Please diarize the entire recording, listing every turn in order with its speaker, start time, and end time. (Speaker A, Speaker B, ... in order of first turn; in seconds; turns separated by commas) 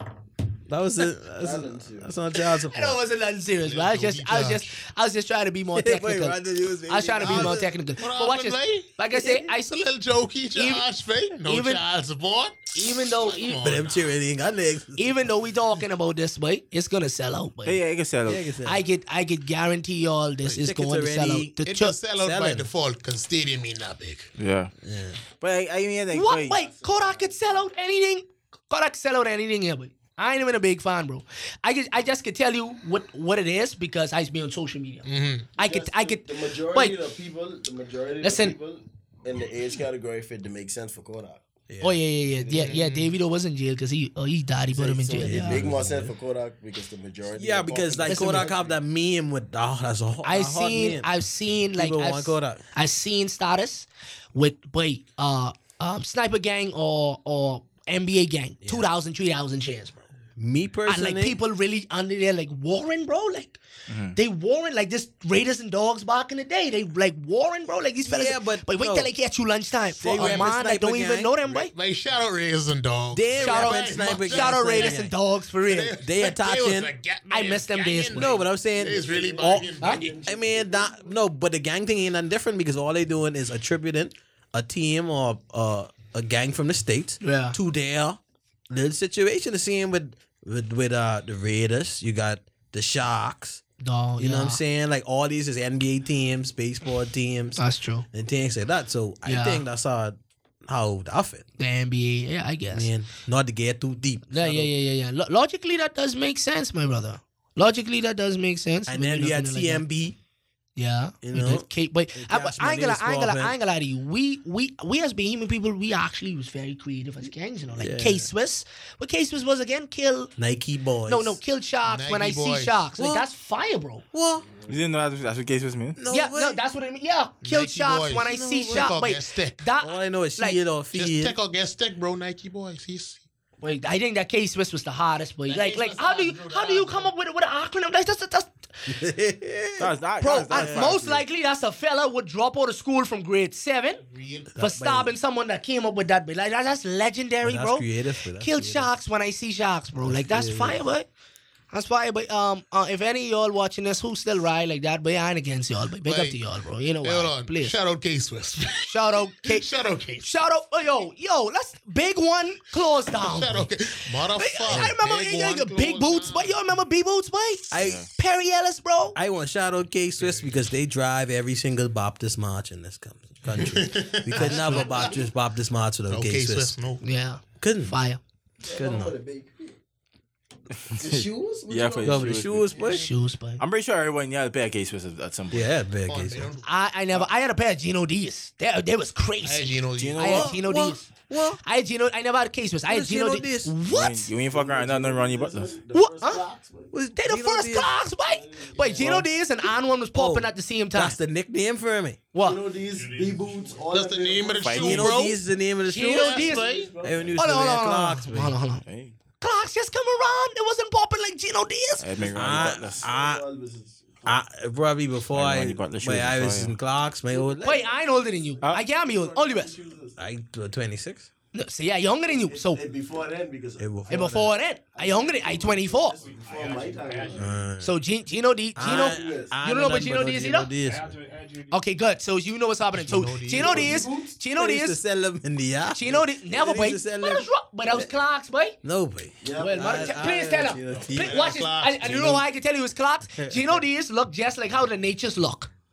Speaker A: 0.7-3.0, Speaker B: 1.4-2.1, Speaker C: 2.4-9.7, Speaker D: 3.6-4.8, Speaker A: 5.7-7.7, Speaker D: 7.2-14.0, Speaker C: 10.6-10.9, Speaker C: 11.4-11.8, Speaker C: 12.7-13.7, Speaker A: 13.6-15.3, Speaker C: 15.0-17.8, Speaker E: 17.6-18.4, Speaker A: 18.3-18.8, Speaker C: 18.6-22.0, Speaker A: 20.5-22.7, Speaker D: 21.6-24.3, Speaker E: 24.4-24.7, Speaker A: 24.8-25.2, Speaker E: 25.4-26.6, Speaker C: 26.1-35.1, Speaker B: 26.2-27.7, Speaker D: 35.0-35.5, Speaker C: 35.6-37.0, Speaker B: 35.6-41.4, Speaker C: 38.2-38.6, Speaker A: 41.7-42.0, Speaker C: 41.8-45.7, Speaker B: 42.4-42.8, Speaker D: 42.5-43.1, Speaker B: 44.7-48.8, Speaker A: 45.2-46.1, Speaker A: 47.3-51.1, Speaker C: 48.1-48.5, Speaker C: 50.2-60.1, Speaker A: 51.7-52.6, Speaker A: 58.6-58.9, Speaker A: 60.4-61.4, Speaker C: 60.9-63.6, Speaker E: 63.9-64.2, Speaker C: 64.1-71.7, Speaker A: 68.0-69.1, Speaker A: 70.0-71.3, Speaker D: 70.1-70.5, Speaker D: 71.4-80.2, Speaker A: 73.1-75.1, Speaker C: 73.4-76.0, Speaker A: 76.0-76.9, Speaker C: 77.3-78.4, Speaker A: 78.1-93.6, Speaker B: 78.8-81.1, Speaker C: 79.8-80.1, Speaker C: 87.2-87.6, Speaker C: 93.8-94.6, Speaker A: 94.2-97.6, Speaker C: 97.6-98.1, Speaker A: 98.1-101.4, Speaker C: 99.3-99.6, Speaker C: 101.6-102.9, Speaker A: 102.7-104.7, Speaker C: 104.3-109.8, Speaker A: 108.9-110.2, Speaker C: 110.8-120.3, Speaker A: 111.2-113.6, Speaker A: 117.8-118.3, Speaker A: 120.4-121.4, Speaker C: 121.1-124.0, Speaker D: 121.8-122.8, Speaker A: 123.0-123.3, Speaker A: 124.1-124.5, Speaker E: 124.7-126.0, Speaker A: 126.0-126.6, Speaker C: 126.1-130.6, Speaker D: 127.4-129.6, Speaker A: 128.2-128.9, Speaker A: 129.8-131.4, Speaker D: 130.9-133.2, Speaker C: 133.6-138.6, Speaker D: 135.5-137.1, Speaker A: 138.9-139.9, Speaker E: 139.8-141.2, Speaker C: 140.2-144.0, Speaker A: 140.5-140.9, Speaker D: 144.1-144.6, Speaker A: 144.6-145.1, Speaker C: 144.6-147.9, Speaker A: 147.4-148.9, Speaker C: 148.4-151.1, Speaker A: 150.1-150.8, Speaker C: 151.7-157.8, Speaker D: 156.1-156.4, Speaker D: 157.0-160.4, Speaker C: 158.8-159.7, Speaker C: 160.2-163.7, Speaker D: 163.2-166.8, Speaker C: 164.3-169.2, Speaker A: 164.7-164.9, Speaker A: 167.7-168.1, Speaker E: 167.8-168.1, Speaker A: 169.2-176.8, Speaker D: 170.2-170.5, Speaker D: 173.5-175.2, Speaker C: 174.3-174.8, Speaker D: 176.1-177.0, Speaker C: 177.0-178.2, Speaker A: 177.6-177.9, Speaker B: 178.7-179.8, Speaker A: 178.7-179.1, Speaker E: 180.9-182.7, Speaker B: 181.0-182.6, Speaker A: 182.0-183.1, Speaker C: 182.9-183.6, Speaker E: 183.6-185.7, Speaker A: 185.5-186.5, Speaker D: 186.1-187.3, Speaker C: 186.6-191.1, Speaker D: 189.4-190.4, Speaker E: 190.0-190.5, Speaker A: 190.2-191.6, Speaker C: 191.6-194.3, Speaker A: 192.9-193.8, Speaker E: 193.9-195.8, Speaker B: 194.4-196.9, Speaker C: 195.9-196.5, Speaker A: 196.9-197.9, Speaker C: 197.2-201.2, Speaker B: 198.2-199.1, Speaker A: 199.0-199.3, Speaker A: 200.1-202.2, Speaker C: 202.3-202.6, Speaker B: 202.4-204.8, Speaker D: 202.9-205.4, Speaker E: 204.6-205.1, Speaker A: 204.8-208.5, Speaker C: 205.0-205.3, Speaker C: 205.9-206.8, Speaker D: 205.9-206.9, Speaker B: 206.4-207.4, Speaker C: 207.4-208.8, Speaker E: 208.8-209.2, Speaker C: 209.4-212.2, Speaker E: 212.0-213.1, Speaker B: 212.2-214.4, Speaker A: 212.3-213.4, Speaker A: 214.2-217.8, Speaker E: 215.3-216.8, Speaker B: 217.3-220.2, Speaker C: 217.6-219.7, Speaker A: 220.2-221.3, Speaker C: 221.5-222.8, Speaker B: 222.3-223.9, Speaker A: 223.8-224.5, Speaker C: 224.1-226.2, Speaker B: 224.9-227.6, Speaker A: 227.3-228.0, Speaker C: 227.8-230.7, Speaker A: 228.8-231.2, Speaker B: 228.8-229.6, Speaker C: 231.7-235.0, Speaker D: 232.9-234.1, Speaker B: 233.6-234.4, Speaker A: 234.5-238.1, Speaker C: 235.9-238.8, Speaker A: 238.8-242.4, Speaker B: 239.4-240.4, Speaker C: 239.6-245.7, Speaker D: 241.1-242.4, Speaker A: 243.4-243.8